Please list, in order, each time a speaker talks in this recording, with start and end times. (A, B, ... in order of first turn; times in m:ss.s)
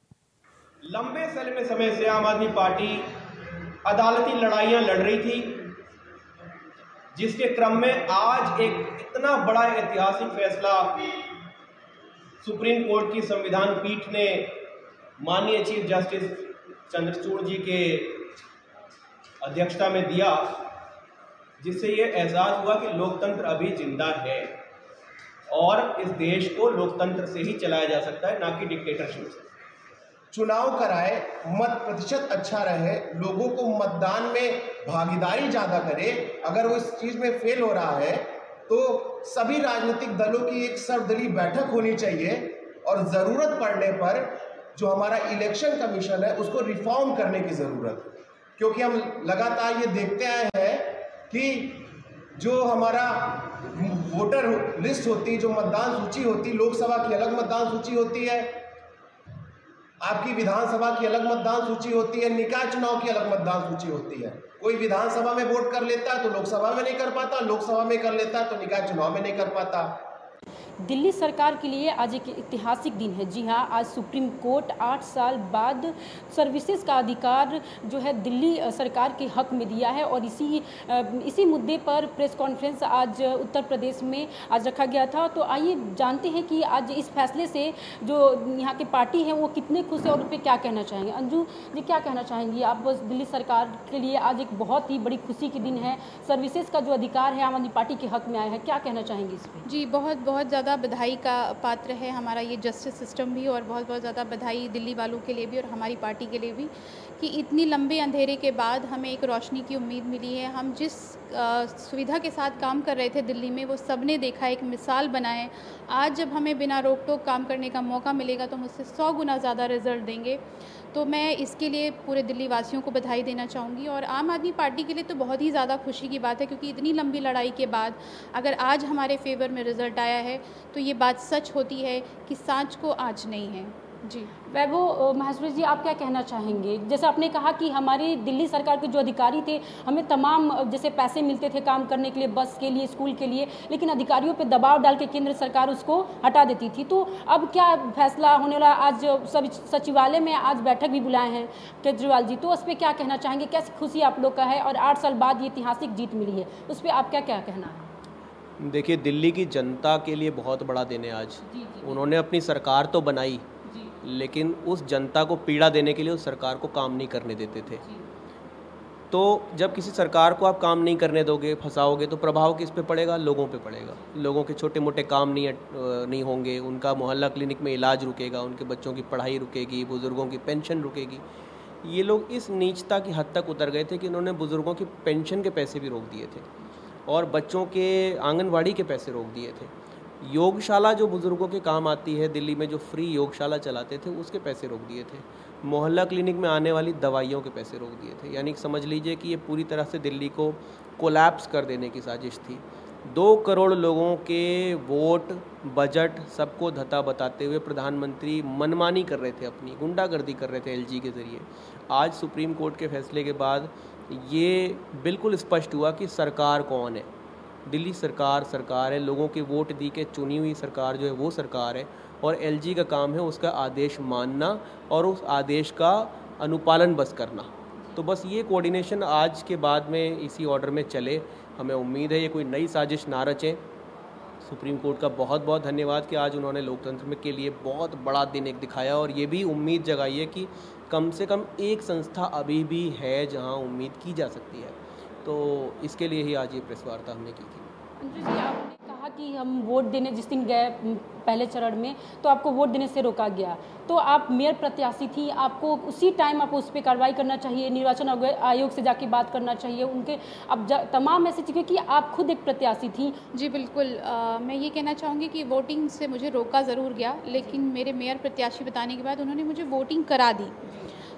0:00.8-0:03.1 A
0:03.8-0:05.6 A
0:07.2-0:11.2 A
0:12.4-0:14.6 A
0:15.2-0:18.3 A
0:19.4-0:20.7 A
0:21.6-0:24.5 A
0:25.5-0:29.4 A
0:30.3-0:58.6 B
1:00.0-1:10.0 B
1:10.8-1:39.6 C
1:39.9-2:00.4 D
2:00.9-2:14.3 D
2:14.5-2:37.9 C
2:38.6-2:43.5 A
2:41.5-2:42.1 C
2:43.6-2:44.0 C
2:44.0-2:47.8 A
2:47.8-2:48.1 C
2:49.1-3:01.2 A
3:01.8-3:06.5 A
3:07.1-3:37.1 A
3:37.7-3:53.6 A
3:54.4-4:07.7 A
4:08.0-4:23.2 C
4:23.4-4:30.5 D
4:27.3-4:27.6 C
4:30.6-4:30.9 C